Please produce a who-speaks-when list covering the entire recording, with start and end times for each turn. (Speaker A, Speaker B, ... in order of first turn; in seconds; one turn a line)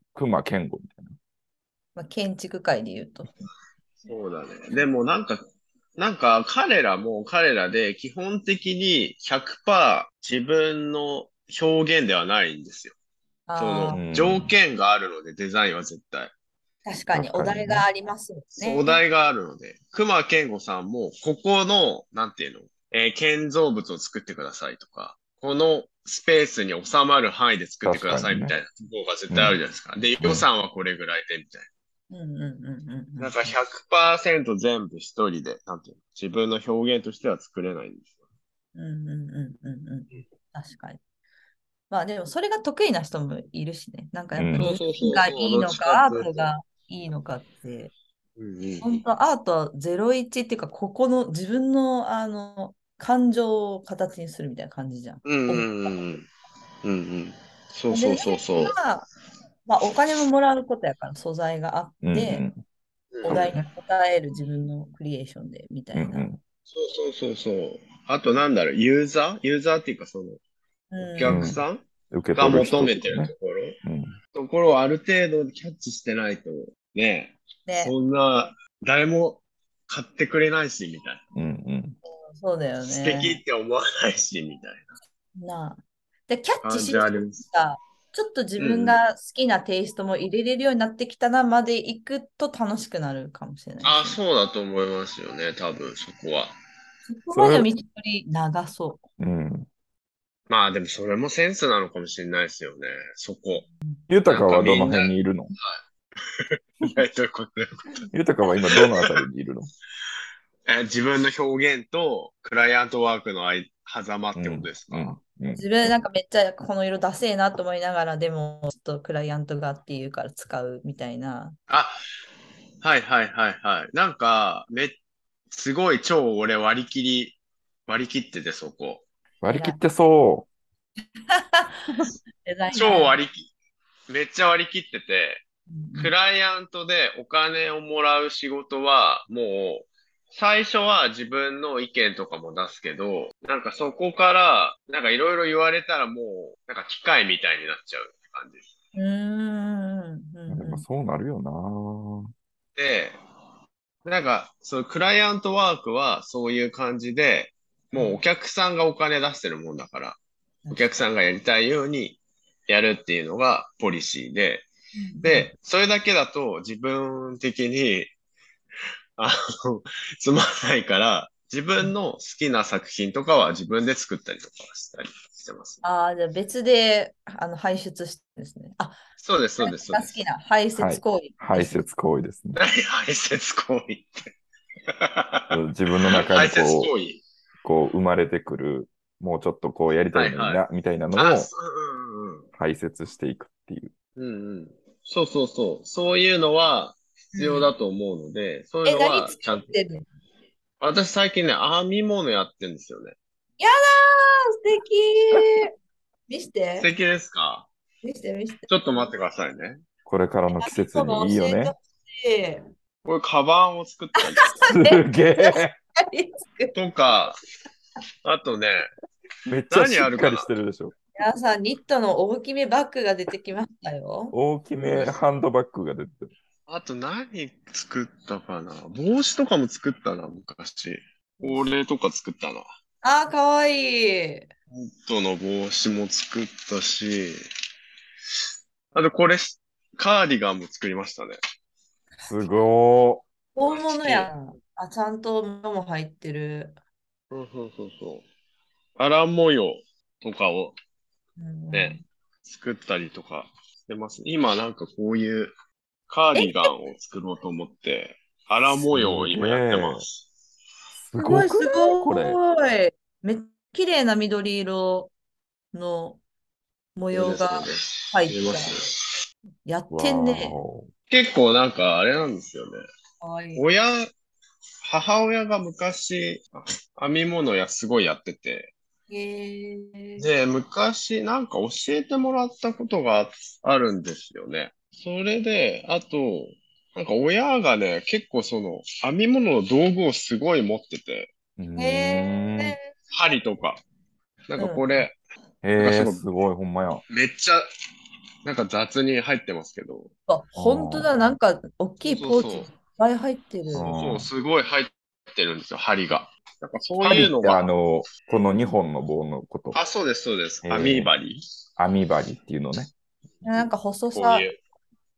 Speaker A: 0.1-1.1
Speaker B: 2.0-3.3
Speaker C: 4.1-5.4
Speaker C: 6.0-13.0
Speaker B: 13.5-14.2
Speaker C: 13.6-16.3
Speaker A: 13.9-14.5
Speaker B: 16.9-19.0
Speaker A: 17.1-17.9
Speaker C: 18.6-31.7
Speaker A: 27.8-28.5
Speaker A: 29.3-29.6
Speaker A: 30.2-30.5
Speaker B: 32.1-33.5
Speaker C: 33.2-38.1
Speaker B: 38.8-41.0
Speaker B: 41.9-47.9
Speaker A: 44.4-44.7
Speaker C: 44.6-46.5
Speaker C: 48.4-48.9
Speaker B: 48.8-56.0
Speaker C: 55.2-56.3
Speaker C: 56.8-58.8
Speaker B: 57.9-59.1
Speaker B: 59.7-62.5
Speaker A: 62.0-62.6
Speaker C: 63.1-63.5
Speaker B: 63.2-66.3
Speaker A: 63.3-63.6
Speaker A: 65.9-66.4
Speaker C: 66.7-70.4
Speaker B: 70.9-71.6
Speaker C: 71.0-71.8
Speaker A: 71.2-73.3
Speaker C: 72.4-73.8
Speaker A: 73.8-74.2
Speaker C: 74.3-81.2
Speaker B: 77.7-77.9
Speaker A: 81.3-82.0
Speaker B: 82.4-83.4
Speaker C: 82.8-84.9
Speaker B: 85.4-94.2
Speaker C: 86.6-87.5
Speaker C: 88.6-89.0
Speaker C: 93.8-96.5
Speaker B: 97.1-99.0
Speaker A: 97.3-97.7
Speaker A: 99.2-99.7
Speaker C: 100.5-103.7
Speaker A: 104.1-105.5
Speaker C: 104.3-108.0
Speaker A: 108.1-109.7
Speaker C: 108.8-109.2
Speaker C: 110.7-115.2
Speaker A: 114.4-115.9
Speaker B: 115.5-121.6
Speaker C: 121.7-122.0
Speaker C: 122.8-125.0
Speaker C: 125.5-129.1
Speaker A: 129.4-130.5
Speaker B: 129.5-129.8
Speaker B: 131.3-133.2
Speaker C: 132.7-133.5
Speaker C: 134.1-135.4
Speaker B: 135.7-136.1
Speaker C: 136.0-148.7
Speaker B: 148.9-150.8
Speaker A: 150.5-152.3
Speaker C: 152.8-153.2
Speaker C: 154.1-160.2
Speaker B: 157.9-158.2
Speaker C: 160.7-164.7
Speaker B: 165.0-165.5
Speaker C: 165.2-168.1
Speaker C: 169.2-175.8
Speaker B: 175.8-179.0
Speaker C: 179.2-180.2
Speaker B: 179.6-181.8
Speaker A: 180.8-182.6
Speaker C: 182.6-184.3
Speaker C: 184.9-185.6
Speaker A: 185.5-186.9
Speaker C: 186.1-187.2
Speaker A: 187.6-191.5
Speaker C: 190.1-190.6
Speaker C: 191.2-192.5
Speaker A: 192.6-193.9
Speaker C: 194.2-199.7
Speaker B: 197.3-197.7
Speaker B: 198.8-200.1
Speaker C: 200.8-203.2
Speaker B: 203.6-205.7
Speaker B: 206.3-206.9
Speaker C: 206.8-207.7
Speaker B: 208.0-209.1
Speaker C: 208.7-209.8
Speaker A: 210.1-211.7
Speaker B: 210.6-212.6
Speaker C: 213.1-214.6
Speaker B: 214.3-216.8
Speaker A: 214.7-215.8
Speaker C: 216.8-217.4
Speaker C: 218.2-218.9
Speaker A: 219.5-220.9
Speaker C: 219.7-220.5
Speaker B: 221.2-224.4
Speaker A: 224.3-226.3
Speaker C: 224.8-225.2
Speaker C: 226.7-232.7
Speaker B: 231.4-231.7
Speaker B: 233.0-234.5
Speaker C: 234.7-237.4
Speaker C: 238.9-241.4
Speaker A: 242.3-243.2
Speaker B: 243.6-246.8
Speaker C: 243.7-244.3
Speaker C: 247.3-248.3
Speaker C: 249.0-250.8
Speaker B: 251.4-252.1
Speaker C: 251.7-255.5
Speaker C: 256.1-260.2
Speaker B: 256.4-256.7
Speaker A: 258.9-260.1
Speaker A: 261.0-262.4
Speaker B: 261.2-265.1
Speaker B: 265.7-266.2
Speaker B: 267.0-268.8
Speaker C: 267.1-269.0
Speaker B: 269.7-270.6
Speaker A: 269.9-270.9
Speaker C: 271.1-272.8
Speaker B: 273.2-273.6
Speaker C: 273.6-274.1
Speaker C: 274.8-278.7
Speaker B: 279.1-280.3
Speaker C: 280.2-291.3
Speaker A: 291.6-292.8
Speaker B: 291.8-292.9
Speaker C: 293.1-293.8
Speaker C: 294.5-295.2
Speaker B: 294.6-295.0
Speaker A: 295.6-297.0
Speaker C: 295.8-296.3
Speaker C: 297.1-297.7
Speaker C: 298.4-300.1
Speaker B: 300.3-303.9
Speaker A: 300.6-301.1
Speaker C: 302.0-302.7
Speaker A: 303.7-304.3
Speaker C: 303.8-307.7
Speaker A: 307.0-309.8
Speaker C: 309.7-311.4
Speaker A: 310.6-311.1
Speaker A: 311.8-312.9
Speaker C: 313.4-314.6
Speaker B: 313.4-314.5